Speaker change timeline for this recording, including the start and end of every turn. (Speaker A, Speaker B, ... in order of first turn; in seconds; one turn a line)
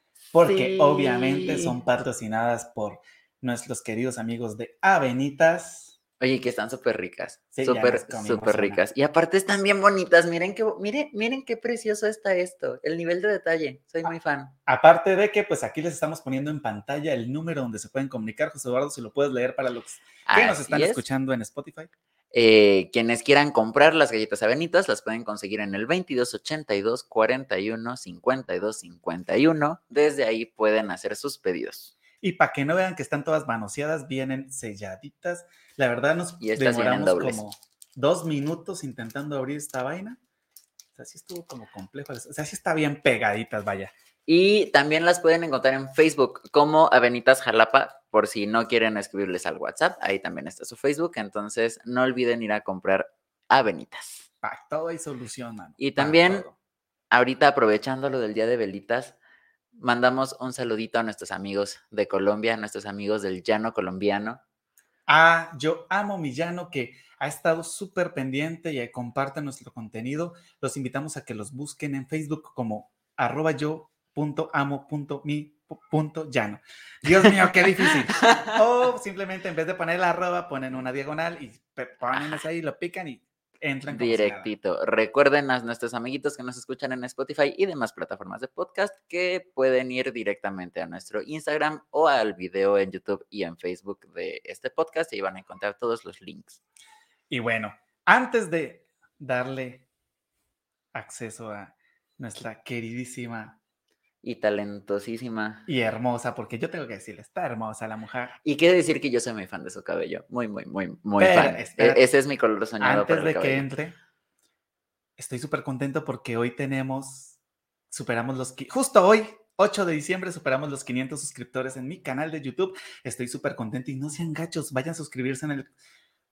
Speaker A: 0.3-1.8
Speaker B: 0.3-5.9
Speaker A: 6.2-14.5
Speaker B: 7.5-8.8
Speaker B: 14.7-21.9
Speaker A: 20.3-21.0
Speaker A: 22.3-31.9
Speaker B: 32.2-40.2
Speaker A: 36.4-37.4
Speaker B: 40.9-43.9
Speaker A: 44.3-54.3
Speaker B: 54.4-56.5
Speaker A: 55.8-56.4
Speaker A: 57.1-59.1
Speaker A: 59.8-64.4
Speaker B: 65.1-84.5
Speaker A: 78.1-78.5
Speaker A: 82.1-82.4
Speaker A: 83.9-96.6
Speaker B: 97.3-99.8
Speaker B: 100.9-103.6
Speaker A: 104.2-105.7
Speaker B: 105.7-108.3
Speaker A: 108.4-113.7
Speaker B: 111.2-112.0
Speaker B: 112.8-113.9
Speaker B: 115.2-117.4
Speaker B: 117.9-125.7